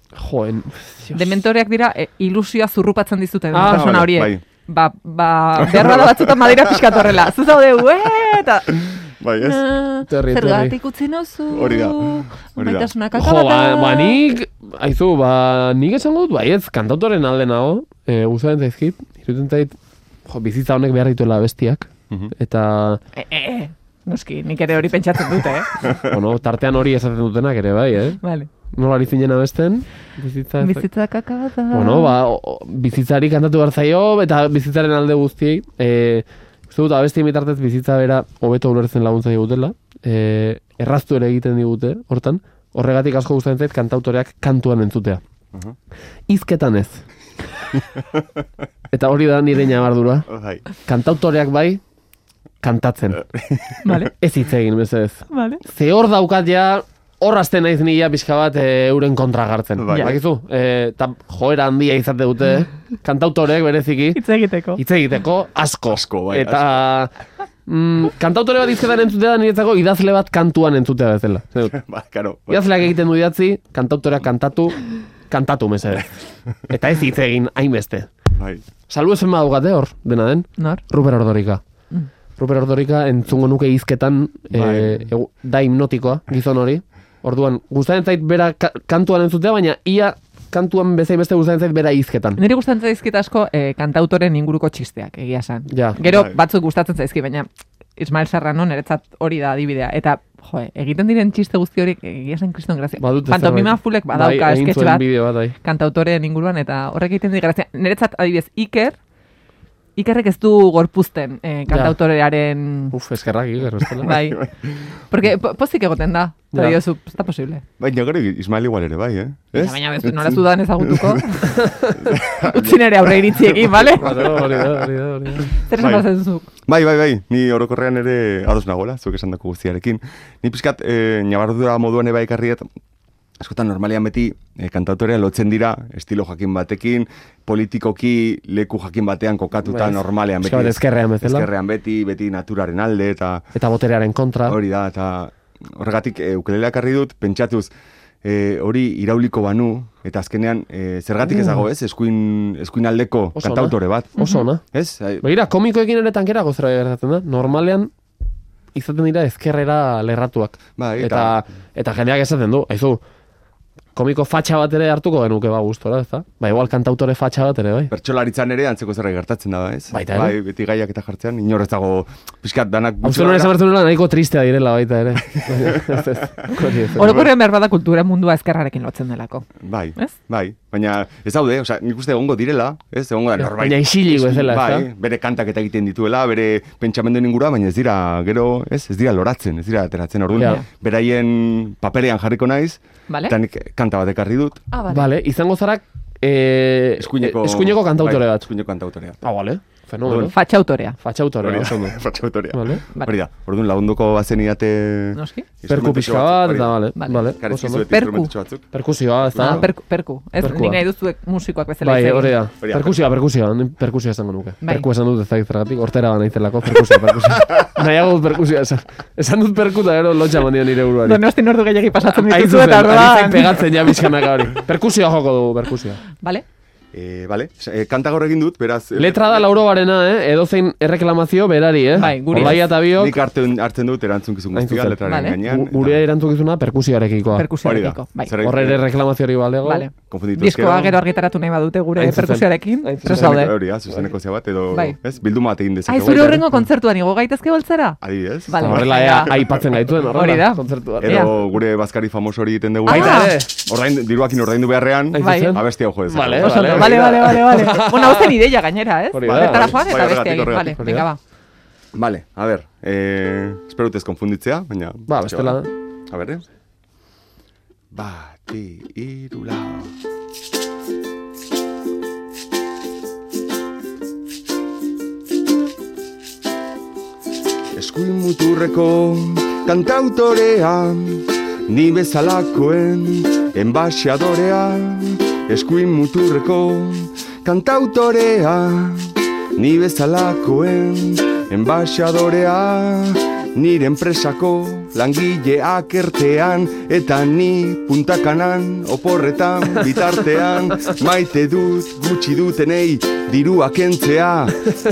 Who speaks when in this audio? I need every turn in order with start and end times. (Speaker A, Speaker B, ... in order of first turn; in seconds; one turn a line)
Speaker A: 0.1-1.2
Speaker B: 1.1-14.2
Speaker A: 3.5-4.1
Speaker C: 3.6-4.4
Speaker C: 5.6-7.0
Speaker C: 9.2-9.6
Speaker A: 10.1-10.8
Speaker C: 11.5-12.9
Speaker A: 13.1-23.0
Speaker B: 23.1-25.8
Speaker A: 26.0-28.2
Speaker B: 28.2-28.5
Speaker A: 28.7-30.8
Speaker B: 30.6-32.2
Speaker A: 31.7-45.2
Speaker A: 46.3-47.0
Speaker A: 48.9-50.3
Speaker C: 50.3-50.6
Speaker A: 50.8-51.8
Speaker A: 52.6-53.2
Speaker C: 53.3-53.8
Speaker B: 53.8-54.1
Speaker A: 54.2-64.2
Speaker B: 55.3-55.6
Speaker C: 59.8-60.2
Speaker B: 64.1-64.8
Speaker A: 64.8-67.1
Speaker C: 65.9-66.8
Speaker A: 67.7-71.8
Speaker C: 71.7-72.7
Speaker A: 72.5-76.1
Speaker A: 76.6-78.1
Speaker C: 78.3-78.6
Speaker A: 78.9-81.6
Speaker B: 80.6-80.8
Speaker A: 82.4-92.4
Speaker C: 84.5-85.1
Speaker B: 92.3-109.0
Speaker A: 95.7-96.0
Speaker C: 96.0-96.4
Speaker A: 103.0-105.5
Speaker B: 110.0-112.9
Speaker A: 111.7-112.0
Speaker A: 112.9-114.2
Speaker B: 114.0-114.4
Speaker C: 114.1-114.7
Speaker B: 115.1-117.6
Speaker A: 116.5-116.8
Speaker C: 117.8-121.2
Speaker B: 119.5-124.3
Speaker C: 122.0-124.8
Speaker A: 123.9-125.5
Speaker B: 125.5-126.5
Speaker C: 125.8-126.1
Speaker C: 126.6-132.7
Speaker C: 133.4-143.4
Speaker A: 139.6-141.5
Speaker A: 143.5-144.6
Speaker C: 144.4-147.7
Speaker C: 148.2-155.2
Speaker A: 151.2-151.6
Speaker A: 153.3-154.6
Speaker B: 154.2-154.4
Speaker A: 155.2-157.9
Speaker A: 158.7-163.0
Speaker C: 160.8-161.4
Speaker A: 163.9-167.9
Speaker C: 167.9-173.5
Speaker A: 169.9-170.3
Speaker A: 173.0-177.1
Speaker C: 175.6-175.9
Speaker B: 176.9-180.1
Speaker C: 177.0-177.3
Speaker C: 179.6-194.6
Speaker A: 183.4-184.9
Speaker B: 190.4-190.6
Speaker B: 193.1-193.3
Speaker B: 194.7-195.1
Speaker A: 194.9-198.5
Speaker C: 197.0-199.2
Speaker A: 199.2-200.3
Speaker C: 200.0-200.3
Speaker B: 200.2-200.9
Speaker A: 201.0-202.0
Speaker C: 201.4-206.8
Speaker A: 202.5-202.8
Speaker B: 205.1-205.4
Speaker A: 205.7-207.9
Speaker B: 206.9-207.3
Speaker C: 207.4-208.7
Speaker B: 207.8-208.3
Speaker A: 208.7-209.7
Speaker C: 209.3-209.7
Speaker B: 209.3-212.4
Speaker A: 210.4-210.8
Speaker A: 211.8-221.2
Speaker C: 212.6-213.0
Speaker B: 214.6-214.9
Speaker B: 221.0-223.7
Speaker A: 222.1-226.0
Speaker C: 226.9-229.4
Speaker A: 228.9-233.2
Speaker B: 231.9-232.6
Speaker C: 232.0-236.0
Speaker A: 234.5-237.5
Speaker B: 235.0-235.4
Speaker B: 237.3-238.3
Speaker C: 237.6-238.8
Speaker A: 238.4-239.9
Speaker B: 239.6-243.5
Speaker C: 240.1-241.0
Speaker A: 241.9-244.1
Speaker C: 243.0-246.4
Speaker B: 245.9-249.3
Speaker C: 248.0-249.4
Speaker A: 248.6-251.5
Speaker B: 250.1-251.3
Speaker C: 251.0-257.1
Speaker B: 252.8-253.4
Speaker A: 252.9-253.5
Speaker A: 255.1-258.4
Speaker B: 255.2-255.6
Speaker B: 256.4-261.2
Speaker A: 259.1-259.8
Speaker C: 259.2-260.8
Speaker A: 260.7-261.1
Speaker C: 261.9-266.4
Speaker A: 265.1-265.7
Speaker C: 267.9-269.9
Speaker C: 277.7-304.5